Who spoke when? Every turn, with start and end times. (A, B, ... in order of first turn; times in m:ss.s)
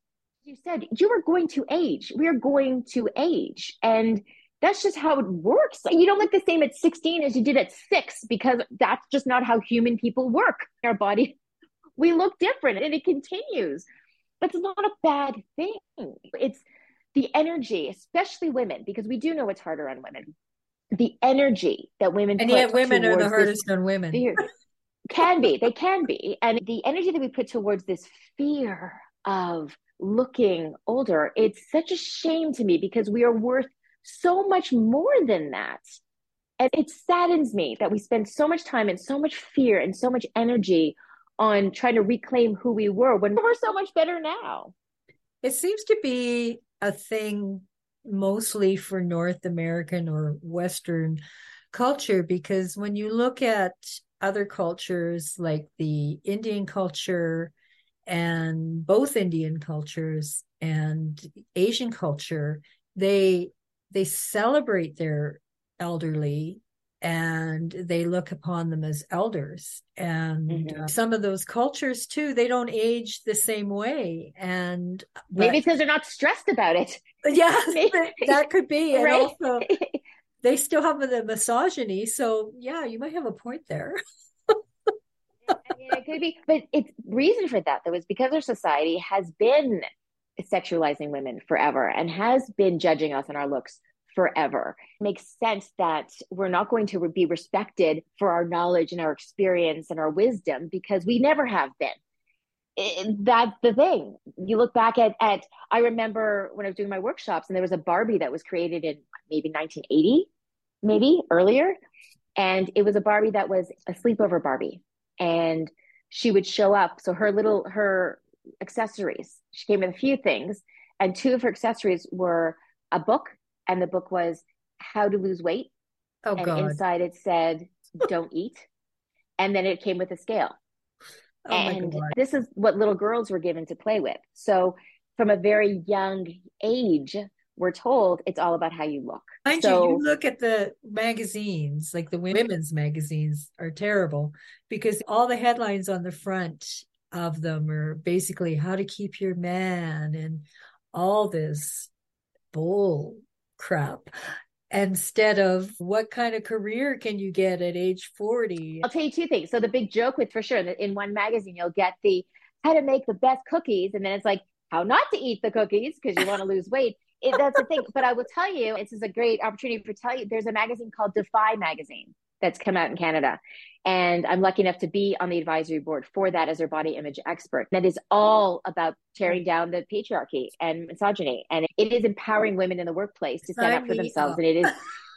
0:00.4-0:11.4 A
0:12.0-0:13.9 A
0:14.4-0:20.3 A
0:21.0-0:24.4 A
0:22.4-0:24.2 B
0:25.1-0:35.8 A
0:36.6-0:44.7 A
0:45.4-0:51.2 B
0:51.7-0:57.5 B
0:58.1-1:15.6 B
1:10.5-1:10.9 A
1:15.4-1:18.4 A
1:17.2-1:19.7 B
1:18.9-1:20.0 A
1:20.4-1:24.6 B
1:25.5-1:29.9 A
1:30.4-1:42.0 A
1:42.8-1:50.3 A
1:50.8-1:51.8 A
1:52.4-2:05.7 A
2:06.3-2:06.8 B
2:06.4-2:08.7 A
2:09.4-2:10.6 A
2:11.5-2:12.2 B
2:11.5-2:20.0 A
2:19.5-2:31.9 B
2:32.5-2:34.1 B
2:34.7-2:38.8 B
2:38.8-3:04.8 A
3:03.6-3:04.8 B